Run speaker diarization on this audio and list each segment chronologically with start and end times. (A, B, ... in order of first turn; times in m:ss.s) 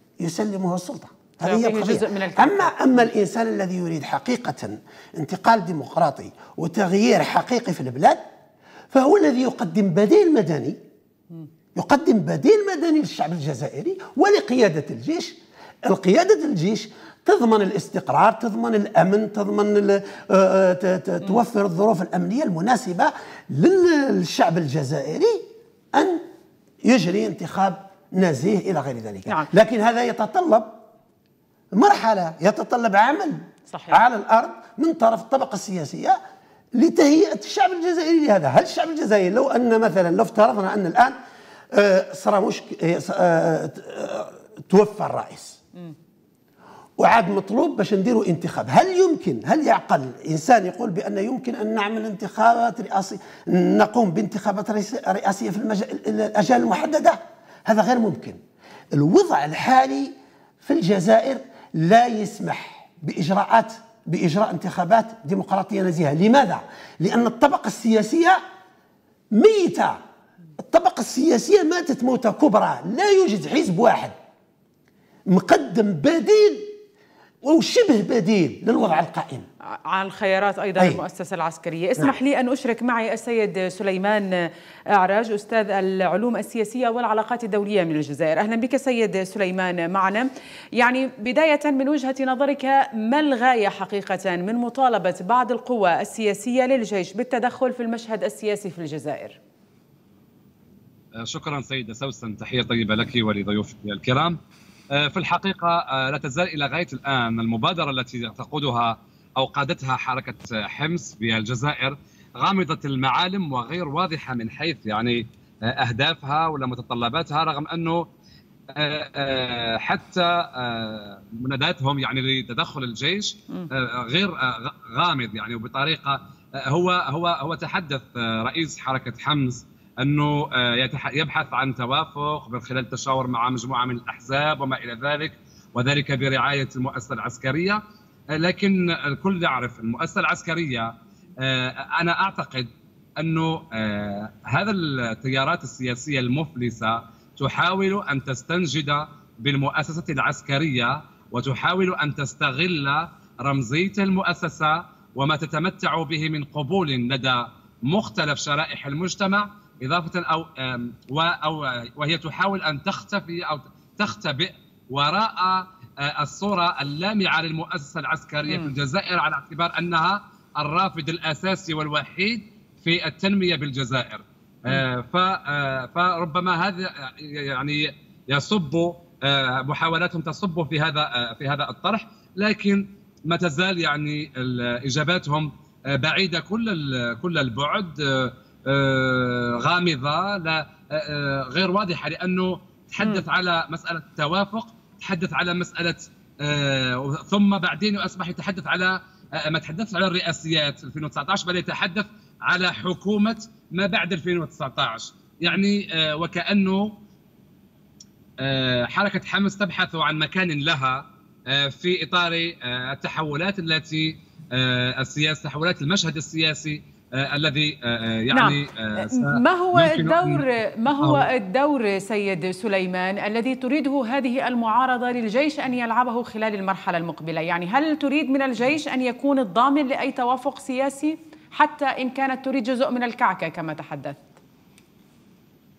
0:00.2-0:08.2 A
0:01.4-0:02.8 B
0:08.9-0:10.8 A
0:11.7-0:26.2 A
0:26.8-0:30.8 A
0:31.7-0:36.2 A
0:33.7-0:34.0 B
0:36.7-0:41.2 A
0:41.7-0:45.6 A
0:47.0-0:58.4 A
0:58.9-1:08.4 A
1:09.3-1:10.0 A
1:10.6-1:14.1 A
1:15.3-1:16.7 A
1:17.4-1:19.5 A
1:19.9-1:24.3 B
1:24.9-1:39.4 B
1:41.2-1:44.4 C
1:44.9-1:58.1 C
1:58.7-2:17.8 C
2:18.3-3:26.9 C
3:13.0-3:13.2 B
3:28.4-3:40.4 C
3:38.3-3:54.2 B
3:41.0-3:41.3 C